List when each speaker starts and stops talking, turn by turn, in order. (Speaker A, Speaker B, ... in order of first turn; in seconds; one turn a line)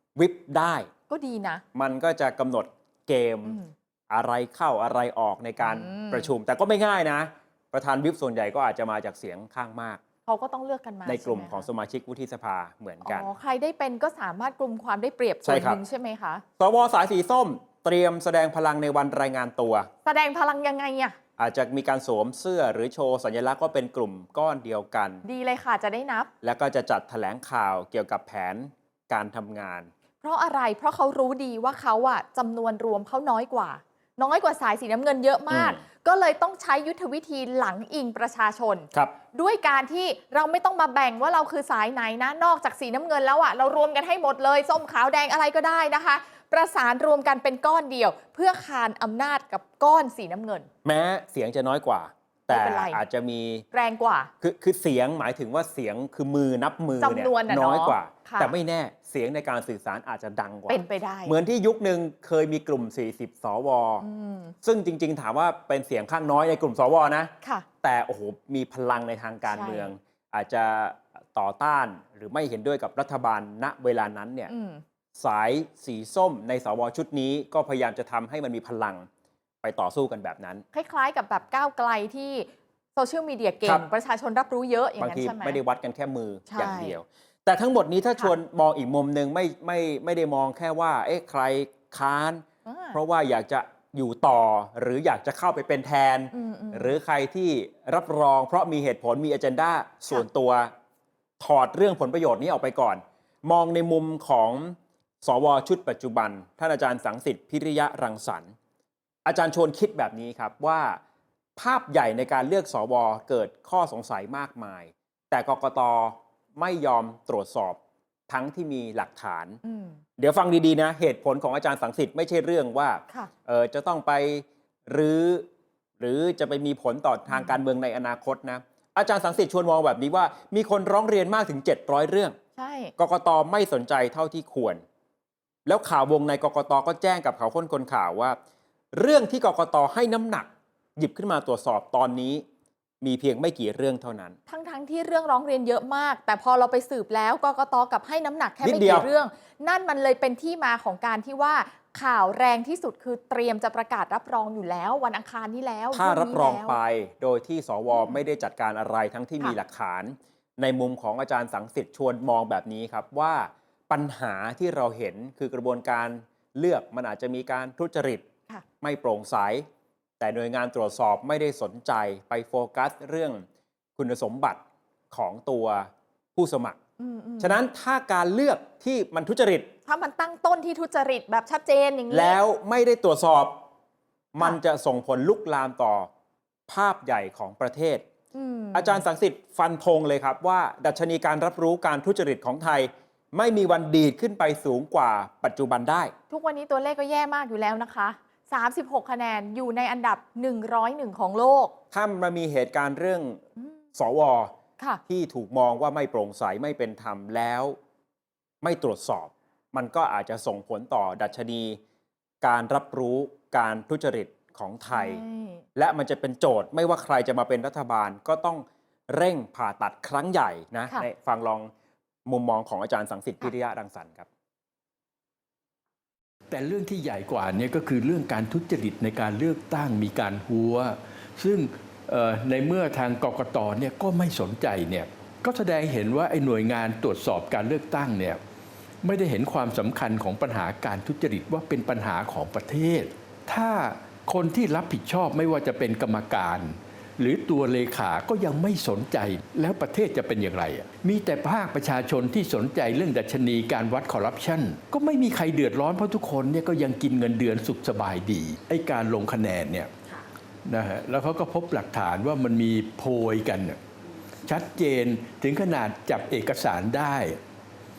Speaker A: 0.1-0.9
Speaker B: 1.1-1.6
Speaker A: 1.7-10.0
Speaker B: 3.5-3.7
Speaker B: 5.6-6.3
Speaker B: 10.2-11.7
Speaker A: 11.1-13.3
Speaker B: 13.0-16.4
Speaker A: 15.4-15.8
Speaker A: 16.6-19.9
Speaker B: 20.0-21.2
Speaker A: 21.4-25.2
Speaker B: 25.2-26.3
Speaker A: 26.4-29.9
Speaker B: 30.2-50.7
Speaker A: 35.5-35.8
Speaker A: 50.8-53.6
Speaker B: 52.5-53.0
Speaker B: 53.7-54.3
Speaker A: 54.4-64.0
Speaker B: 57.0-58.5
Speaker B: 60.7-61.3
Speaker B: 64.0-64.5
Speaker A: 64.6-74.5
Speaker B: 69.5-69.9
Speaker B: 74.5-74.8
Speaker A: 75.2-79.1
Speaker A: 79.6-80.6
Speaker B: 80.7-85.6
Speaker A: 85.0-100.7
Speaker B: 86.5-87.0
Speaker B: 92.7-93.0
Speaker B: 96.3-97.0
Speaker A: 101.4-108.5
Speaker A: 109.2-111.0
Speaker A: 111.6-117.8
Speaker A: 118.3-119.6
Speaker B: 119.6-120.0
Speaker A: 120.2-125.5
Speaker A: 126.0-132.4
Speaker B: 127.3-127.6
Speaker B: 132.6-132.9
Speaker A: 133.0-134.8
Speaker A: 135.7-138.4
Speaker A: 138.9-142.4
Speaker A: 143.0-144.4
Speaker B: 144.5-156.8
Speaker A: 148.6-149.1
Speaker A: 155.9-168.3
Speaker B: 157.9-158.2
Speaker A: 168.8-169.7
Speaker A: 170.2-173.4
Speaker A: 174.0-176.8
Speaker B: 177.0-177.6
Speaker A: 177.4-179.7
Speaker B: 179.9-182.4
Speaker A: 182.1-183.6
Speaker A: 184.3-186.1
Speaker A: 186.7-188.0
Speaker B: 188.3-189.0
Speaker A: 188.7-196.1
Speaker B: 196.3-201.7
Speaker A: 201.9-204.5
Speaker A: 205.1-207.8
Speaker A: 208.6-211.8
Speaker A: 212.4-215.2
Speaker B: 214.9-215.6
Speaker A: 215.7-221.7
Speaker A: 222.2-224.3
Speaker C: 226.5-238.4
Speaker C: 239.0-259.9
Speaker C: 260.6-263.8
Speaker C: 264.4-267.4